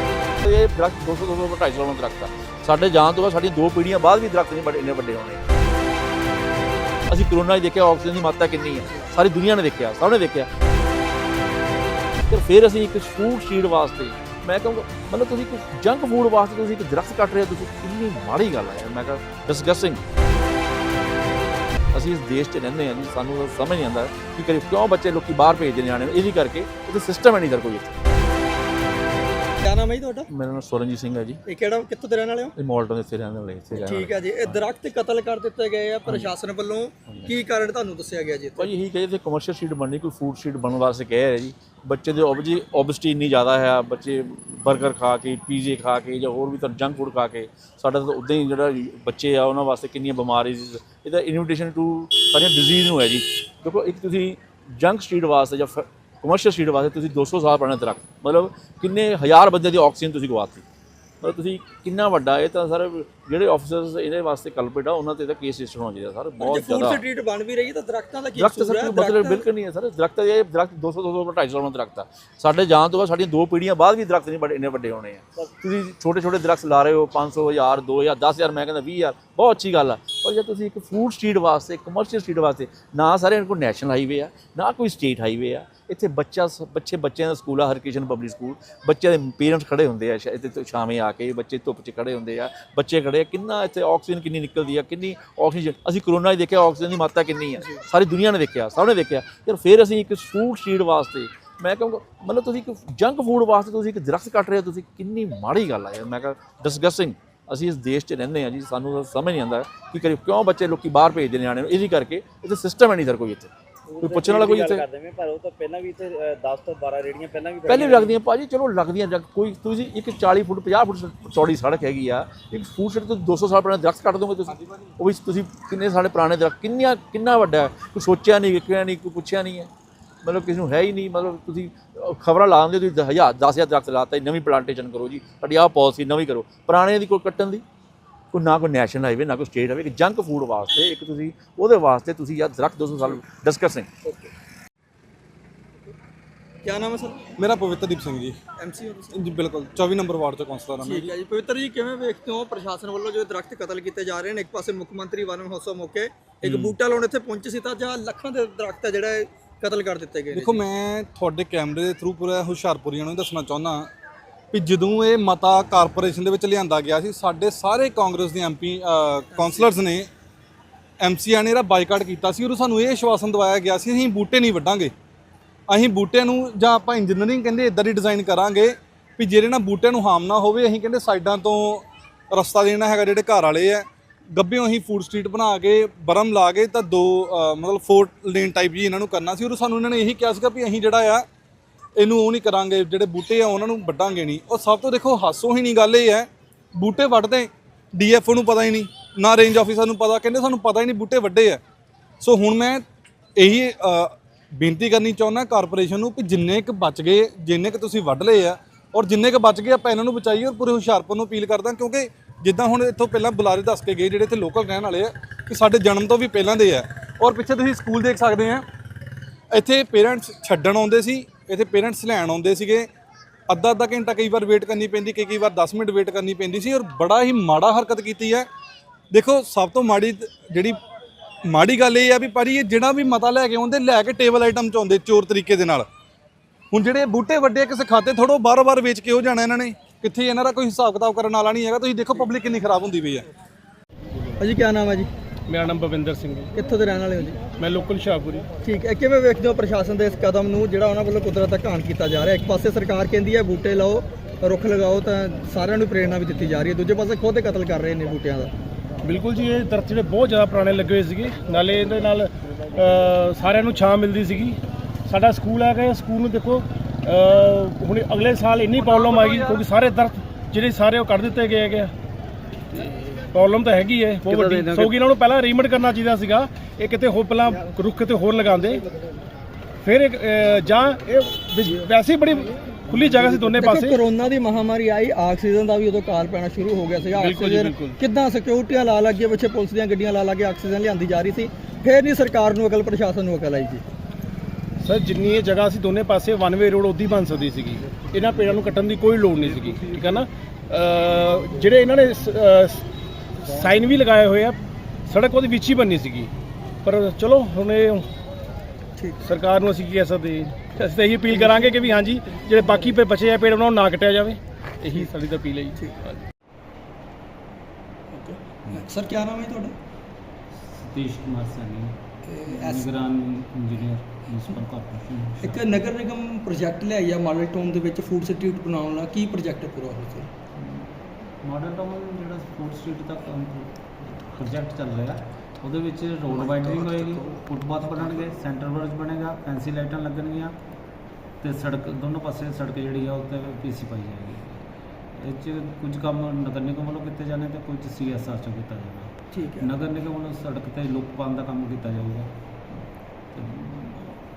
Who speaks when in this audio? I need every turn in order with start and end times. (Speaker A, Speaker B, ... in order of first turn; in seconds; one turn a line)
Speaker A: 0.4-5.5
Speaker A: 7.1-10.5
Speaker A: 12.3-20.0
Speaker A: 21.9-28.0
Speaker B: 29.6-30.3
Speaker A: 30.3-31.4
Speaker B: 31.4-32.5
Speaker A: 32.6-34.6
Speaker B: 33.8-38.7
Speaker A: 38.6-60.6
Speaker A: 61.2-67.0
Speaker B: 66.4-69.5
Speaker A: 68.4-113.5
Speaker C: 113.9-118.1
Speaker A: 114.0-114.8
Speaker A: 117.7-129.7
Speaker A: 130.2-137.6
Speaker A: 138.3-143.9
Speaker B: 146.6-147.3
Speaker D: 147.4-148.4
Speaker B: 148.6-149.3
Speaker D: 149.1-151.1
Speaker B: 150.8-160.6
Speaker D: 160.3-163.9
Speaker D: 164.5-170.1
Speaker B: 169.3-169.7
Speaker D: 171.0-174.9
Speaker D: 175.7-191.2
Speaker D: 192.0-201.6
Speaker D: 202.2-202.8
Speaker D: 203.4-218.6
Speaker D: 219.5-222.9
Speaker D: 223.5-228.5
Speaker D: 229.1-230.8
Speaker D: 231.4-235.9
Speaker D: 236.7-243.2
Speaker B: 244.4-245.1
Speaker E: 245.5-246.5
Speaker B: 246.5-247.4
Speaker E: 247.6-248.4
Speaker B: 248.6-258.5
Speaker E: 259.0-271.9
Speaker E: 273.3-278.8
Speaker F: 274.2-274.9
Speaker E: 279.8-284.0
Speaker B: 283.6-293.8
Speaker E: 287.1-288.0
Speaker E: 294.8-302.8
Speaker E: 303.4-306.3
Speaker E: 306.8-308.1
Speaker B: 309.0-309.2
Speaker E: 309.2-316.2
Speaker B: 311.3-311.8
Speaker B: 312.5-312.9
Speaker B: 318.1-319.7
Speaker F: 320.6-325.9
Speaker B: 322.2-322.9
Speaker B: 325.4-330.3
Speaker F: 330.5-340.5
Speaker F: 341.4-352.3
Speaker B: 349.3-349.7
Speaker F: 353.3-354.2